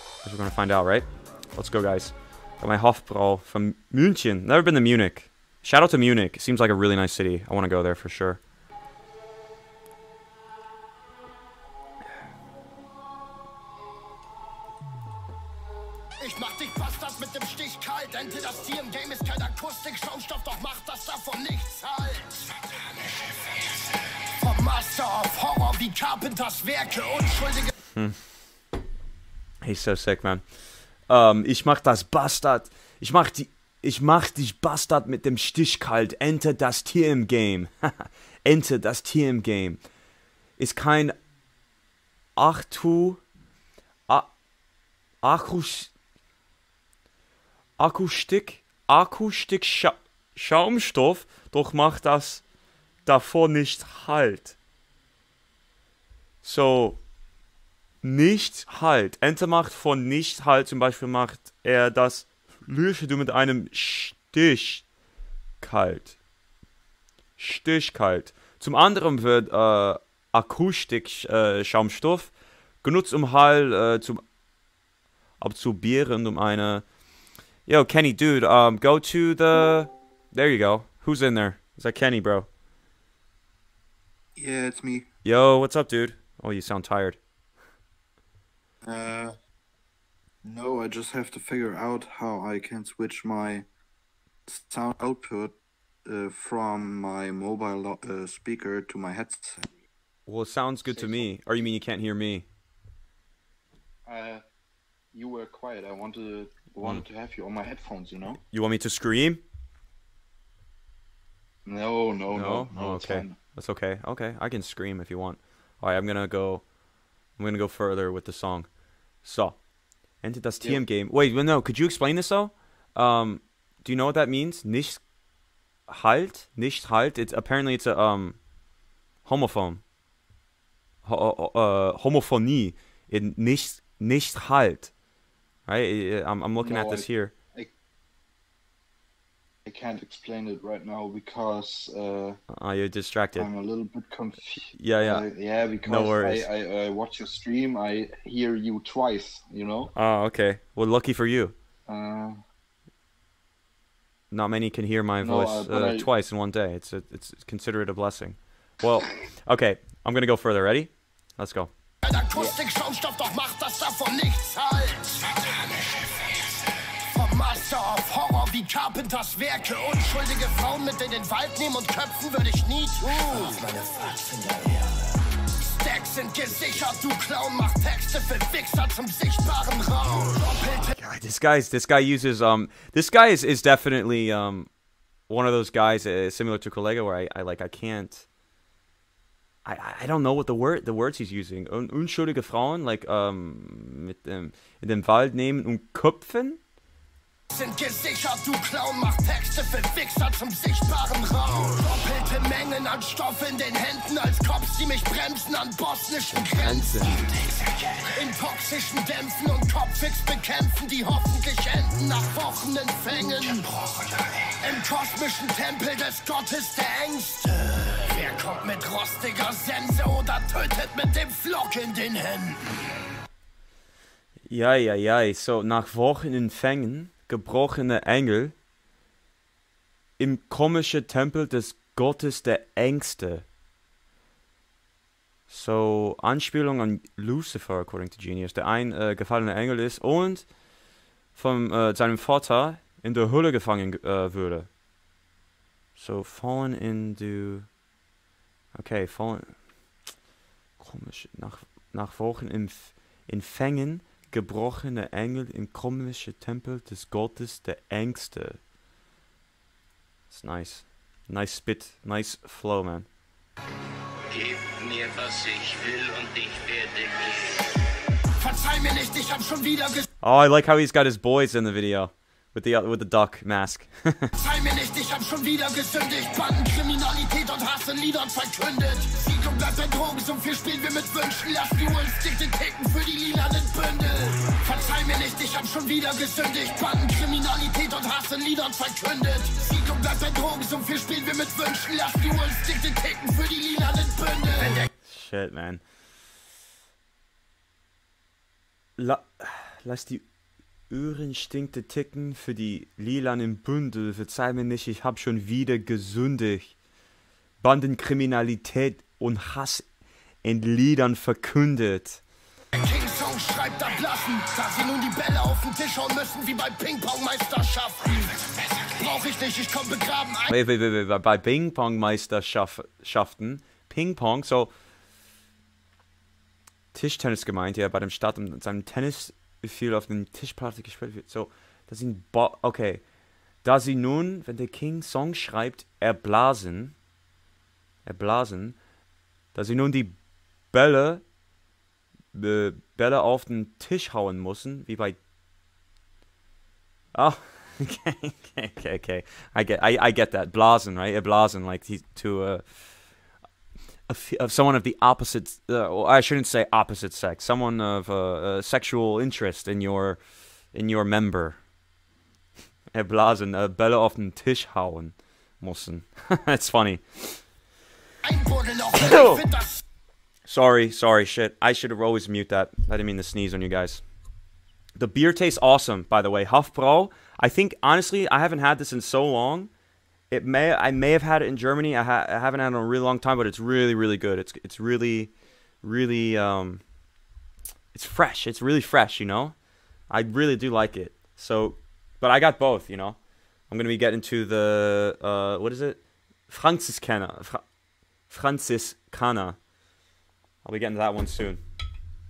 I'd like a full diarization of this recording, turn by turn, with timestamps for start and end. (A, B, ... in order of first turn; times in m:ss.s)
0:00.2-0:08.4 A
0:16.2-0:23.5 B
0:24.4-0:27.7 B
0:29.6-0:30.4 A
0:31.1-0:39.8 A
0:40.6-0:41.2 A
0:42.4-0:43.2 A
0:45.2-0:45.9 A
0:47.8-0:52.4 A
0:53.0-0:54.6 A
0:56.4-0:57.0 A
0:58.0-1:04.8 A
1:05.6-1:06.2 A
1:07.4-1:14.2 A
1:15.4-1:16.8 A
1:17.7-1:22.5 A
1:24.4-1:25.0 C
1:25.2-1:27.2 A
1:28.8-1:29.3 C
1:30.4-1:33.6 C
1:34.5-1:39.7 C
1:40.3-1:42.4 A
1:40.8-1:41.4 C
1:44.0-1:44.4 C
1:45.1-1:48.4 C
1:48.5-1:49.4 A
1:51.6-1:53.4 C
1:52.3-1:56.6 A
1:57.4-1:58.7 A
1:59.2-1:59.6 A
2:00.2-2:05.0 A
2:05.9-2:08.4 A
2:09.2-2:09.8 A
2:11.0-2:14.9 A
2:15.7-2:17.3 A
2:16.6-2:17.7 C
2:19.6-2:22.4 C
2:22.5-2:23.5 A
2:23.4-2:29.9 C
2:24.7-2:25.2 A
2:25.8-2:26.5 A
2:29.9-2:31.5 A
2:31.9-2:32.4 C
2:34.3-2:41.7 A
2:35.2-2:36.1 C
2:42.0-2:46.2 B
2:47.0-3:00.9 B
3:00.9-3:04.7 A
3:05.3-3:08.2 A
3:09.6-3:16.6 A
3:17.5-3:27.3 B
3:26.4-3:27.5 A
3:28.0-3:42.8 B
3:44.5-3:48.5 A
3:50.2-3:53.4 A
3:55.5-4:00.5 A
4:01.3-4:04.7 A
4:06.0-4:07.7 A
4:08.7-4:09.6 A
4:10.8-4:18.6 A
4:20.3-4:23.1 A
4:24.3-4:27.7 D
4:28.4-4:30.1 B
4:30.2-4:34.3 A
4:34.3-4:54.9 B
4:55.0-4:55.8 A
4:59.0-5:00.2 A
5:00.9-5:06.7 A
5:07.6-5:09.8 A
5:10.4-5:12.2 A
5:12.7-5:20.6 B
5:20.5-5:24.7 A
5:26.9-5:33.0 A
5:33.6-5:36.9 A
5:38.0-5:38.8 A
5:39.5-5:40.2 A
5:40.7-5:41.2 A
5:42.3-5:45.2 A
5:47.1-5:52.8 A
5:54.1-6:00.2 A
6:00.7-6:01.6 A
6:02.9-6:07.4 A
6:08.2-6:09.8 B
6:09.0-6:09.4 A
6:10.5-6:14.0 A
6:15.0-6:19.7 A
6:20.3-6:26.8 A
6:27.9-6:29.5 A
6:30.1-6:33.2 A
6:33.7-6:37.6 A
6:38.3-6:39.6 A
6:40.6-6:41.6 A